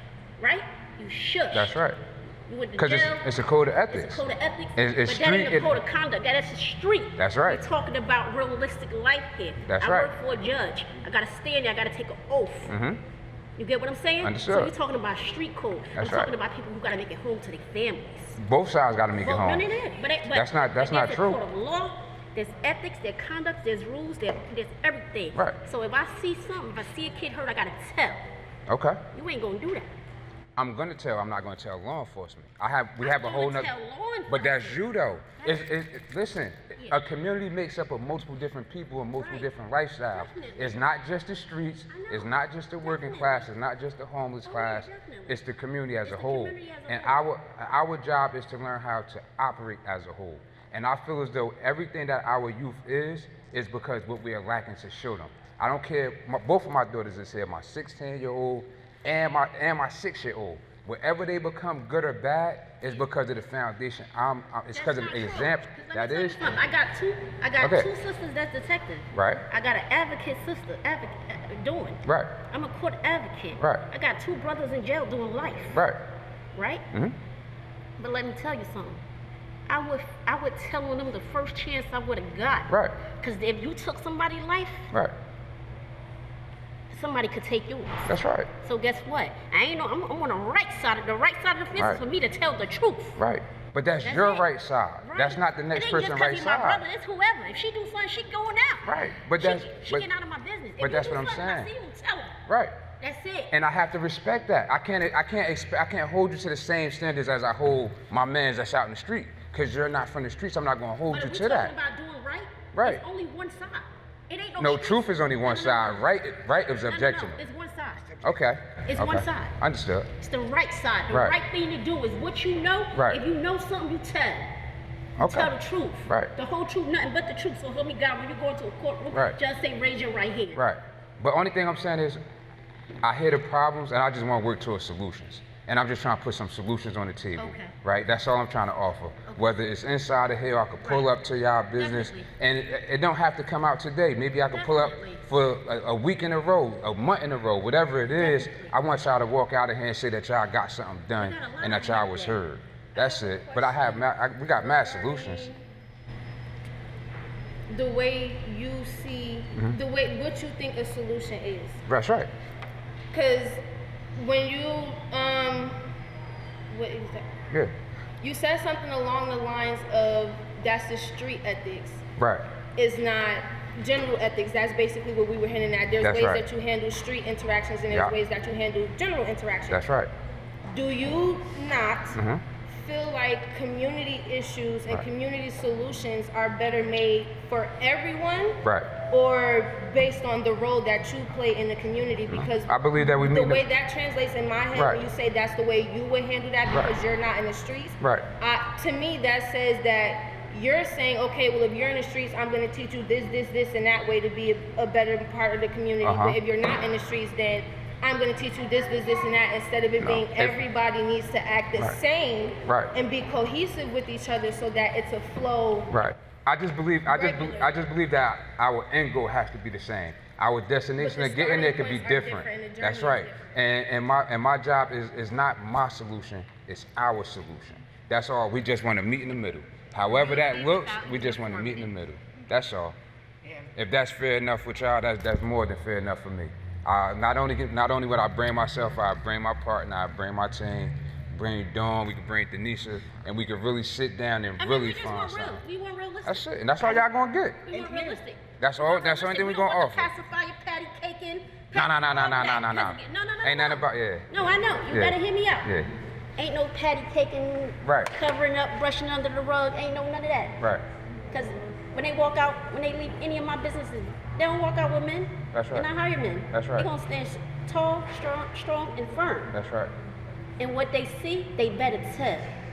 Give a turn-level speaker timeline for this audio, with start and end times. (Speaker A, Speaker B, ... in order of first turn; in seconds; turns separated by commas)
Speaker A: 0.4-1.8, Speaker B: 1.5-2.0, Speaker A: 2.5-3.3, Speaker B: 2.8-4.2, Speaker A: 3.9-12.7, Speaker B: 4.8-5.8, Speaker B: 7.2-7.7, Speaker B: 9.7-10.1, Speaker B: 12.7-13.0, Speaker A: 13.6-18.4, Speaker B: 14.2-14.7, Speaker B: 15.9-16.3, Speaker B: 18.4-19.7, Speaker A: 19.2-28.2, Speaker B: 20.3-21.4, Speaker B: 28.7-29.0, Speaker A: 29.1-29.9, Speaker B: 30.6-33.7, Speaker A: 33.0-34.8, Speaker B: 34.3-66.6, Speaker A: 39.2-39.5, Speaker A: 40.1-40.9, Speaker A: 41.9-43.5, Speaker A: 44.5-45.4, Speaker A: 46.0-47.3, Speaker A: 64.7-75.8, Speaker B: 67.6-67.9, Speaker B: 69.1-69.5, Speaker B: 72.1-72.3, Speaker B: 73.6-73.8, Speaker B: 75.7-76.0, Speaker A: 76.5-76.8, Speaker A: 78.0-79.0, Speaker A: 79.7-84.9, Speaker B: 82.7-83.0, Speaker A: 86.9-93.2, Speaker B: 88.1-88.5, Speaker B: 91.8-92.0, Speaker B: 93.2-96.8, Speaker A: 94.0-94.5, Speaker A: 95.0-102.4, Speaker B: 98.8-100.1, Speaker B: 100.8-101.7, Speaker B: 102.5-102.8, Speaker A: 103.0-103.5, Speaker B: 103.5-111.7, Speaker A: 111.1-116.1, Speaker B: 112.7-113.0, Speaker B: 114.6-117.4, Speaker A: 116.9-118.2, Speaker B: 118.2-120.1, Speaker A: 118.9-119.5, Speaker A: 120.2-124.5, Speaker B: 121.1-121.4, Speaker B: 122.9-123.2, Speaker B: 125.2-125.5, Speaker A: 125.2-130.6, Speaker B: 126.1-126.3, Speaker B: 129.1-129.4, Speaker B: 130.5-132.2, Speaker B: 133.0-155.5, Speaker A: 137.3-137.8, Speaker A: 140.8-141.1, Speaker A: 141.8-142.3, Speaker A: 144.5-145.2, Speaker A: 148.2-148.8, Speaker A: 151.2-152.4, Speaker A: 152.9-154.0, Speaker A: 154.6-155.6, Speaker C: 157.7-161.8, Speaker B: 159.5-159.8, Speaker B: 161.9-162.3, Speaker C: 163.1-163.6, Speaker C: 164.1-165.9, Speaker C: 166.7-167.3, Speaker C: 168.2-172.0, Speaker B: 172.2-172.4, Speaker C: 172.8-179.8, Speaker B: 176.0-176.4, Speaker B: 177.9-178.1, Speaker B: 179.7-180.1, Speaker C: 180.7-182.2, Speaker B: 182.1-182.4, Speaker C: 182.8-215.9, Speaker B: 188.6-189.0, Speaker B: 192.3-193.6, Speaker B: 194.7-195.1, Speaker B: 198.0-198.3, Speaker B: 206.0-206.4, Speaker B: 210.0-210.6, Speaker B: 212.6-212.9, Speaker B: 215.9-232.9, Speaker C: 217.1-217.7, Speaker C: 221.0-223.5, Speaker A: 230.3-231.9, Speaker B: 233.7-245.6, Speaker A: 244.6-247.1, Speaker B: 246.2-247.8, Speaker A: 247.7-255.8, Speaker C: 247.9-248.2, Speaker B: 248.6-250.1, Speaker B: 251.7-254.3, Speaker B: 254.9-255.9, Speaker A: 256.4-260.6, Speaker B: 257.8-258.1, Speaker A: 261.3-269.6, Speaker B: 265.5-265.9, Speaker B: 266.5-266.9, Speaker B: 269.5-269.9, Speaker A: 270.6-272.5